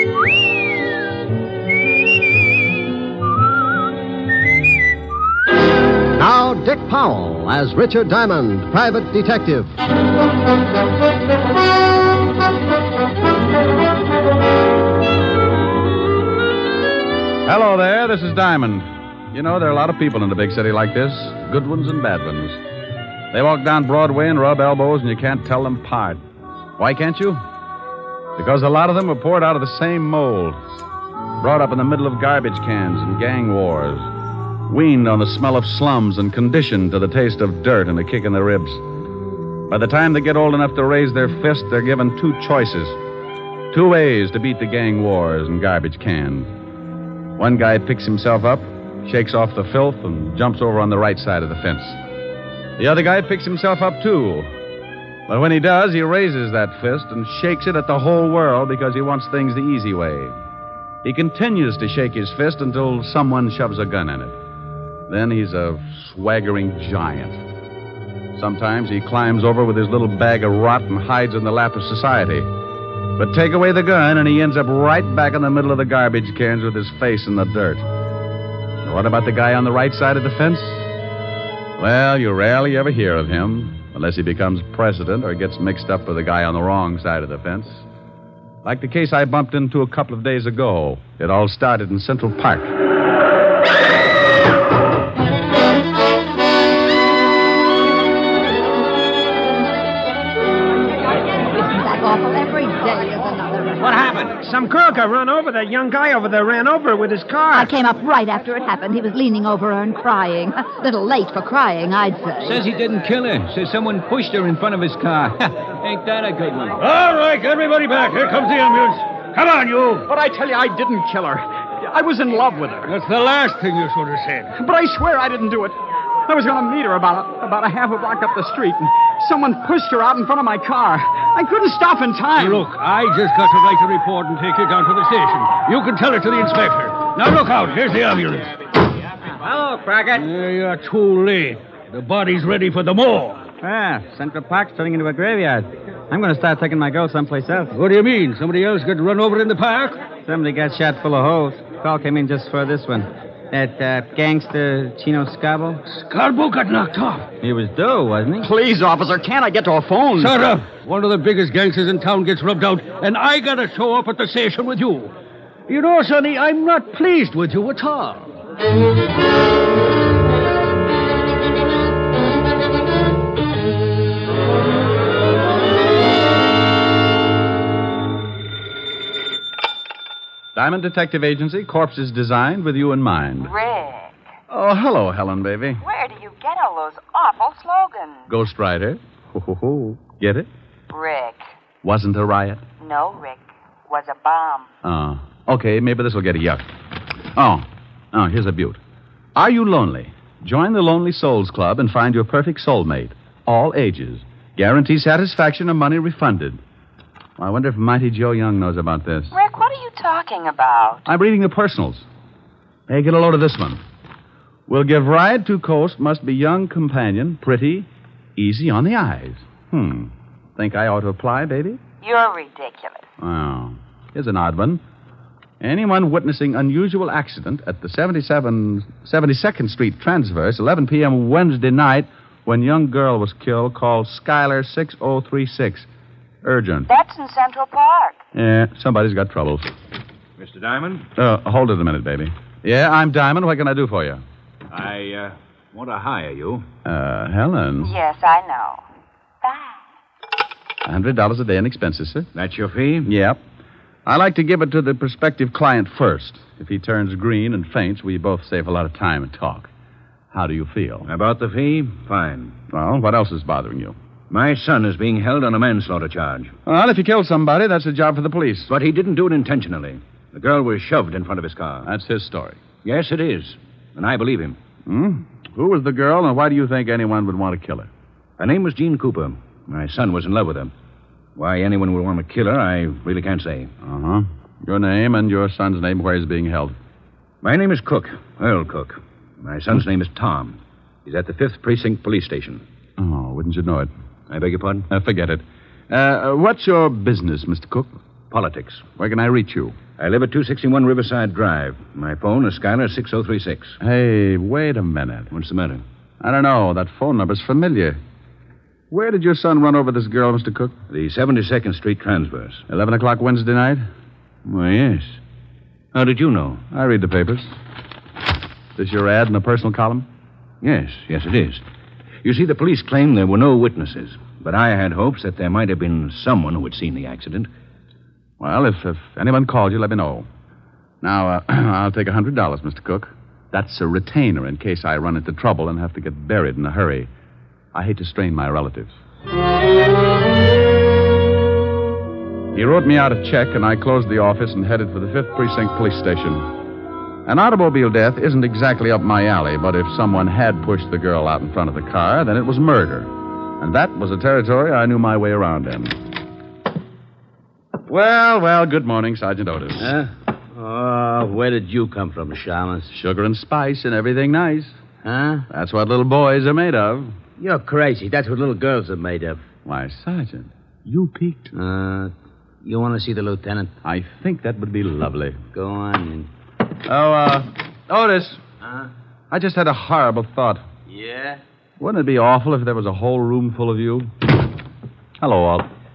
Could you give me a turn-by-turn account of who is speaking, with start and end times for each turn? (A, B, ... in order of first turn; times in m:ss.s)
0:06.2-0:09.8 A
0:17.4-0:22.6 B
0:23.3-0:26.2 B
0:26.8-0:27.4 B
0:28.4-0:30.6 B
0:31.4-0:34.1 B
0:34.7-0:38.8 B
0:39.7-0:43.0 B
0:43.7-0:46.5 B
0:47.4-0:52.0 B
0:52.8-0:54.5 B
0:55.3-1:00.3 B
1:01.0-1:04.4 B
1:05.1-1:07.4 B
1:08.3-1:12.5 B
1:13.2-1:17.8 B
1:18.8-1:20.9 B
1:21.8-1:27.8 B
1:28.6-1:32.7 B
1:41.4-1:44.2 C
1:44.3-1:47.7 D
1:47.5-1:52.6 C
1:52.4-1:56.8 E
1:56.8-2:00.1 F
2:00.1-2:02.9 G
2:02.8-2:04.5 F
2:04.6-2:05.7 G
2:06.3-2:12.6 G
2:12.4-2:18.5 F
2:19.4-2:20.2 H
2:20.1-2:23.4 F
2:23.6-2:27.7 H
2:27.7-2:30.1 F
2:30.1-2:35.8 H
2:35.9-2:37.3 F
2:37.4-2:38.5 H
2:38.4-2:40.3 G
2:40.2-2:45.1 F
2:45.7-2:48.3 F
3:00.5-3:03.5 B
3:03.4-3:04.2 I
3:04.5-3:05.8 B
3:05.8-3:08.2 I
3:08.3-3:10.5 B
3:10.9-3:11.4 I
3:11.8-3:12.6 B
3:12.8-3:14.7 I
3:14.8-3:16.6 B
3:17.3-3:18.8 B
3:19.4-3:26.6 B
3:27.4-3:29.3 B
3:29.3-3:31.1 I
3:31.0-3:32.0 B
3:32.9-3:33.8 B
3:34.7-3:41.8 B
3:42.0-3:43.0 I
3:43.2-3:44.8 B
3:45.6-3:55.9 B
3:56.4-3:56.9 B
3:56.9-3:58.2 I
3:58.3-3:59.7 B
4:00.4-4:01.1 E
4:01.2-4:04.2 B
4:04.7-4:06.6 E
4:06.8-4:07.9 B
4:07.8-4:08.8 I
4:09.4-4:09.8 I
4:10.8-4:12.3 B
4:12.3-4:13.1 E
4:13.0-4:13.4 B
4:14.0-4:19.7 B
4:20.3-4:21.1 B
4:21.0-4:22.6 E
4:22.7-4:24.0 B
4:24.3-4:26.5 E
4:26.6-4:28.7 B
4:28.7-4:31.9 E
4:31.8-4:32.6 B
4:32.8-4:34.6 E
4:34.8-4:37.9 B
4:38.4-4:40.7 E
4:41.4-4:43.7 E
4:43.8-4:46.8 B
4:47.4-4:52.6 E
4:53.0-4:53.9 B
4:54.3-4:54.9 E
4:54.9-4:57.9 B
4:58.3-4:58.8 E
4:59.0-4:59.8 B
5:00.0-5:03.8 E
5:03.8-5:05.3 B
5:05.3-5:05.8 E
5:06.2-5:08.0 B
5:08.9-5:10.7 B
5:10.9-5:12.6 E
5:12.7-5:13.9 B
5:14.4-5:15.2 E
5:15.9-5:16.6 E
5:16.7-5:17.5 B
5:18.8-5:20.1 B
5:20.6-5:21.6 E
5:22.2-5:27.5 E
5:28.4-5:30.3 B
5:31.0-5:37.1 B
5:37.7-5:38.9 B
5:42.5-5:46.5 B
5:47.2-5:56.0 B
5:57.9-5:59.9 B
5:59.8-6:02.9 J
6:02.9-6:04.8 B
6:05.0-6:05.4 J
6:05.5-6:07.1 B
6:07.4-6:09.4 J
6:09.6-6:11.5 B
6:11.5-6:13.7 J
6:13.8-6:15.4 B
6:15.5-6:16.3 J
6:16.8-6:18.4 B
6:19.3-6:20.6 B
6:20.9-6:21.4 J
6:21.8-6:24.1 B
6:25.2-6:25.7 B